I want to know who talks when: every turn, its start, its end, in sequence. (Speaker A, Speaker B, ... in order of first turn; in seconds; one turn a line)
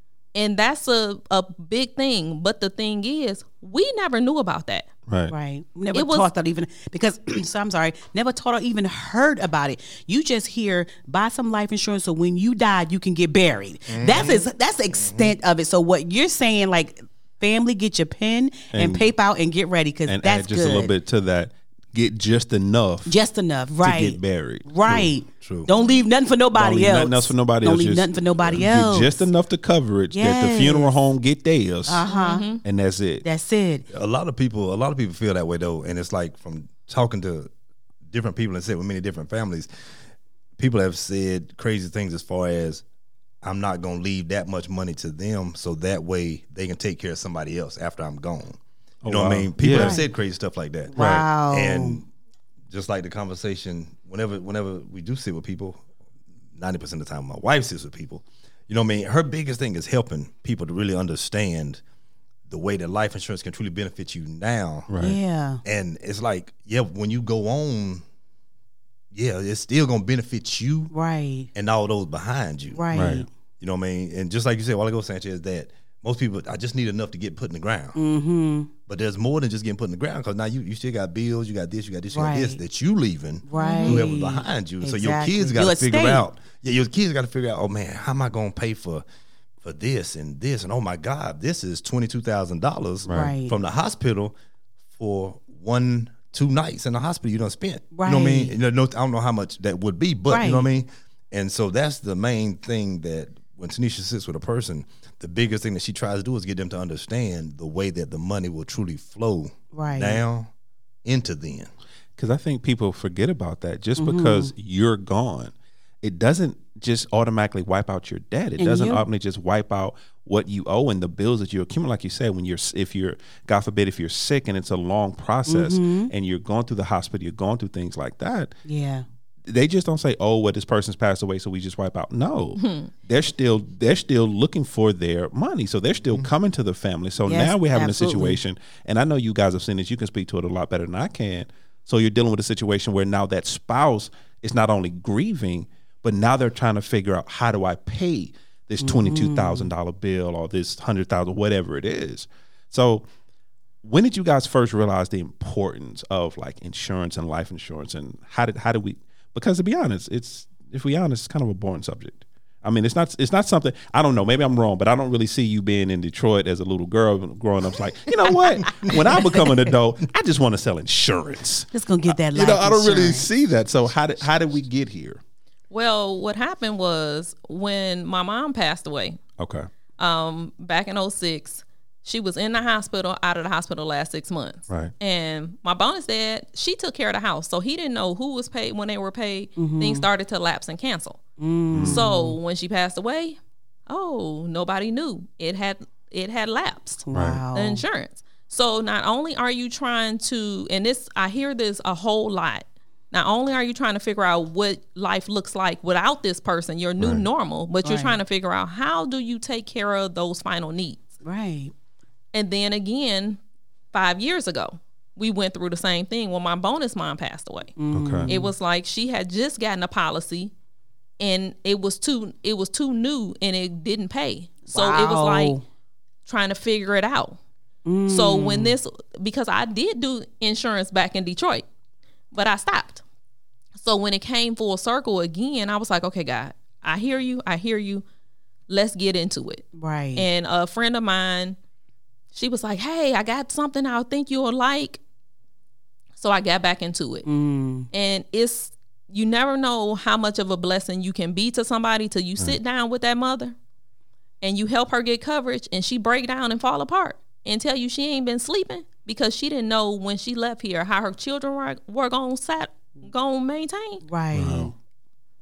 Speaker A: 0.3-4.9
Speaker B: 5.1-5.3
Speaker C: 5.3-20.9
Speaker A: 5.9-6.3
Speaker D: 13.9-14.4
Speaker D: 15.0-15.3
Speaker B: 18.7-19.1
Speaker B: 20.1-23.1
Speaker C: 23.1-29.3
Speaker B: 23.8-25.1
Speaker D: 25.3-25.7
Speaker B: 26.6-33.2
Speaker C: 30.1-31.0
Speaker C: 31.9-32.5
Speaker A: 32.1-32.6
Speaker C: 33.2-33.8
Speaker D: 33.9-37.5
Speaker D: 38.1-39.7
Speaker D: 40.6-42.8
Speaker D: 43.4-52.1
Speaker B: 49.0-49.9
Speaker C: 49.7-50.0
Speaker C: 50.9-52.0
Speaker B: 51.0-51.2
Speaker D: 52.7-55.8
Speaker D: 56.5-61.8
Speaker D: 62.5-64.9
Speaker B: 64.9-65.2
Speaker C: 65.0-65.6
Speaker D: 65.6-68.0
Speaker D: 69.1-70.9
Speaker C: 70.9-71.5
Speaker D: 71.5-72.8
Speaker C: 72.7-73.3
Speaker B: 72.9-73.2
Speaker D: 73.6-78.0
Speaker C: 77.9-78.7
Speaker D: 78.9-89.0
Speaker C: 82.1-82.6
Speaker C: 83.5-86.2
Speaker A: 83.5-84.0
Speaker D: 89.6-94.3
Speaker B: 93.1-93.3
Speaker C: 93.1-93.5
Speaker D: 95.0-110.5
Speaker C: 97.9-98.5
Speaker C: 100.3-100.6
Speaker C: 109.7-110.2
Speaker D: 111.0-111.7
Speaker B: 112.2-128.5
Speaker C: 114.0-114.5
Speaker C: 118.6-119.0
Speaker C: 125.5-126.1
Speaker C: 128.7-129.0
Speaker B: 129.4-153.1
Speaker A: 132.6-132.9
Speaker C: 137.2-138.4
Speaker C: 148.8-149.7
Speaker B: 153.8-175.2
Speaker C: 171.7-173.3
Speaker A: 175.7-179.2
Speaker B: 179.4-179.7
Speaker A: 180.0-191.2
Speaker C: 189.6-190.1
Speaker C: 191.4-192.4
Speaker B: 191.7-192.0
Speaker A: 191.8-193.4
Speaker A: 193.9-211.1
Speaker C: 197.1-197.8
Speaker B: 197.1-197.4
Speaker B: 207.0-207.2
Speaker C: 207.8-208.2
Speaker C: 211.2-211.7
Speaker A: 212.3-213.4
Speaker A: 213.9-217.7
Speaker C: 217.8-218.5
Speaker B: 217.9-218.3
Speaker A: 218.3-220.5
Speaker A: 221.2-225.6
Speaker C: 224.7-225.6
Speaker A: 226.2-227.4
Speaker C: 227.8-228.7
Speaker A: 228.1-231.6
Speaker A: 232.3-233.0
Speaker A: 233.8-238.0
Speaker A: 238.7-241.6
Speaker C: 239.8-240.3
Speaker A: 242.3-245.0
Speaker A: 246.2-247.2
Speaker C: 247.2-247.9
Speaker A: 247.9-253.5
Speaker A: 254.4-264.0
Speaker C: 264.0-264.7
Speaker B: 264.3-264.7